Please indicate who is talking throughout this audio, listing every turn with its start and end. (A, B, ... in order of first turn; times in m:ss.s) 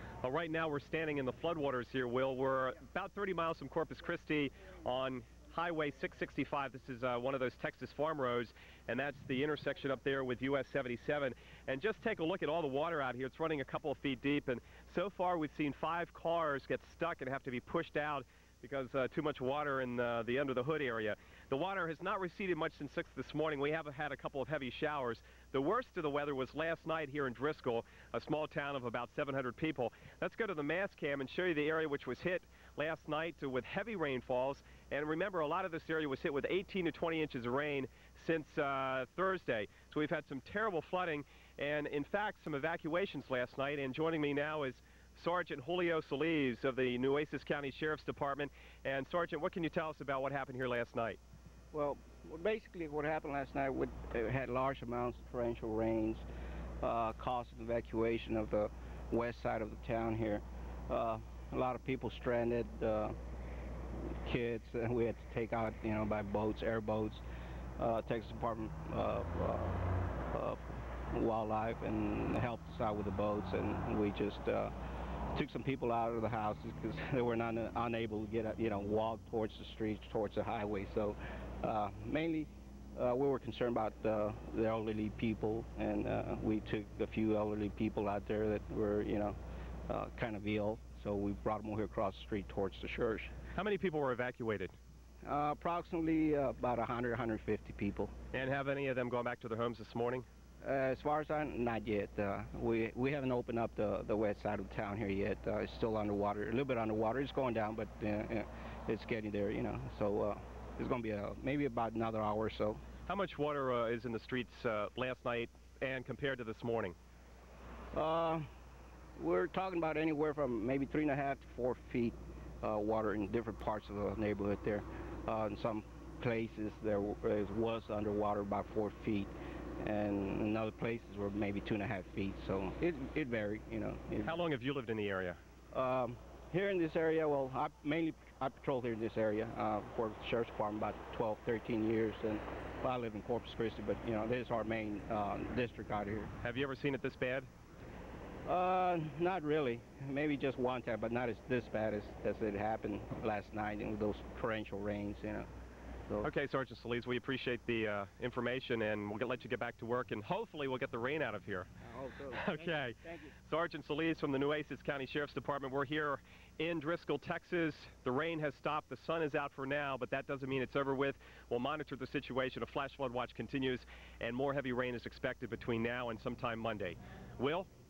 0:00.2-0:51.2 A
0:51.7-0:56.3 B
0:56.8-1:03.2 B
1:04.0-1:07.2 B
1:07.8-1:14.7 B
1:15.3-1:29.4 B
1:29.9-1:33.3 B
1:33.6-1:34.8 A
1:35.2-1:38.2 B
1:38.3-1:40.3 A
1:40.6-1:52.8 B
1:53.1-1:57.0 A
1:57.9-1:58.5 B
1:59.2-2:14.4 B
2:14.2-2:15.4 A
2:15.7-2:26.3 B
2:26.4-2:27.5 A
2:28.5-2:35.5 B
2:36.2-2:41.7 A
2:41.8-2:43.3 B
2:42.3-2:57.7 A